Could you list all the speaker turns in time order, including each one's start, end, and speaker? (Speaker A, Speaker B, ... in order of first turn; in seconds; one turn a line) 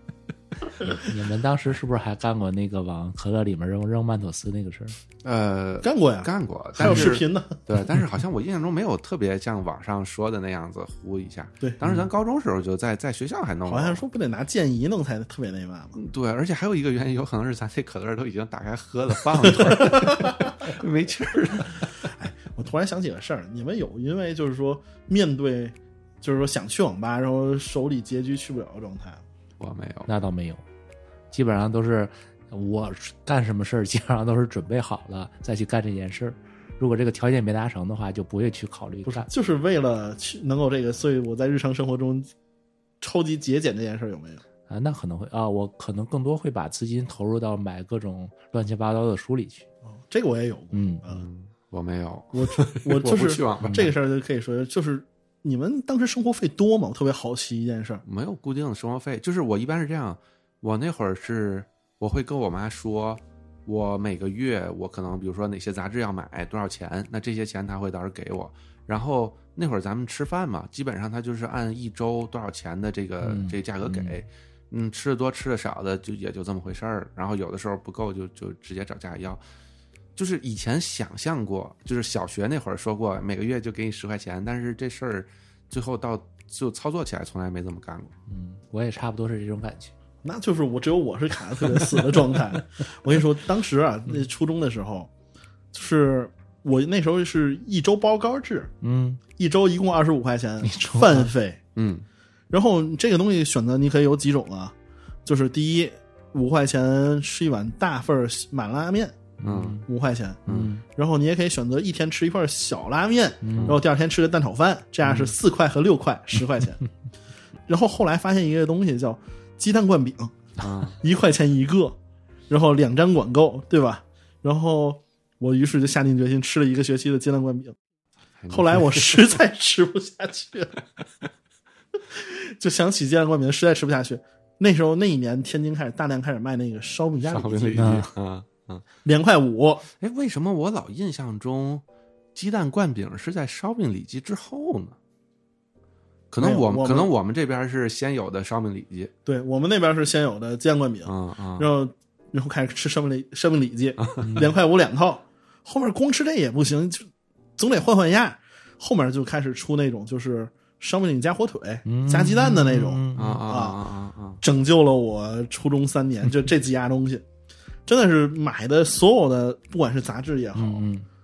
Speaker A: 0.8-1.1
Speaker B: 0.9-5.0
Speaker A: 5.2-14.0
Speaker C: 5.8-7.6
Speaker B: 6.8-7.1
Speaker C: 13.7-16.0
Speaker A: 16.0-21.9
Speaker C: 19.5-20.6
Speaker C: 22.0-29.2
Speaker A: 29.6-30.1
Speaker B: 30.1-30.6
Speaker B: 31.3-39.3
Speaker C: 39.0-42.3
Speaker C: 43.0-44.4
Speaker B: 44.7-49.7
Speaker C: 50.0-51.2
Speaker B: 50.7-51.0
Speaker A: 51.1-53.9
Speaker C: 52.3-58.0
Speaker B: 53.6-53.9
Speaker A: 58.0-79.4
Speaker B: 73.2-74.2
Speaker A: 80.2-88.1
Speaker B: 88.3-89.9
Speaker C: 90.2-95.1
Speaker B: 91.8-92.6
Speaker C: 95.7-98.7
Speaker B: 98.8-99.2
Speaker C: 99.4-101.6
Speaker B: 100.6-101.3
Speaker A: 101.8-102.0
Speaker C: 102.5-104.8
Speaker C: 105.3-109.2
Speaker B: 109.4-109.8
Speaker A: 109.5-109.8
Speaker C: 109.9-116.8
Speaker A: 110.5-110.7
Speaker B: 110.5-110.8
Speaker B: 113.4-113.8
Speaker C: 117.7-120.4
Speaker A: 120.6-121.0
Speaker C: 121.0-122.0
Speaker C: 122.5-127.8
Speaker A: 128.4-129.2
Speaker C: 128.5-130.8
Speaker C: 132.0-138.0
Speaker A: 137.2-138.8
Speaker B: 137.8-138.1
Speaker C: 139.1-139.9
Speaker A: 140.0-141.8
Speaker A: 142.3-145.0
Speaker A: 146.3-149.1
Speaker C: 146.4-147.1
Speaker C: 149.3-163.8
Speaker A: 151.1-151.7
Speaker A: 154.0-154.3
Speaker B: 154.2-154.5
Speaker B: 161.9-163.4
Speaker A: 163.2-164.4
Speaker C: 164.4-167.2
Speaker C: 167.9-170.9
Speaker B: 170.6-171.1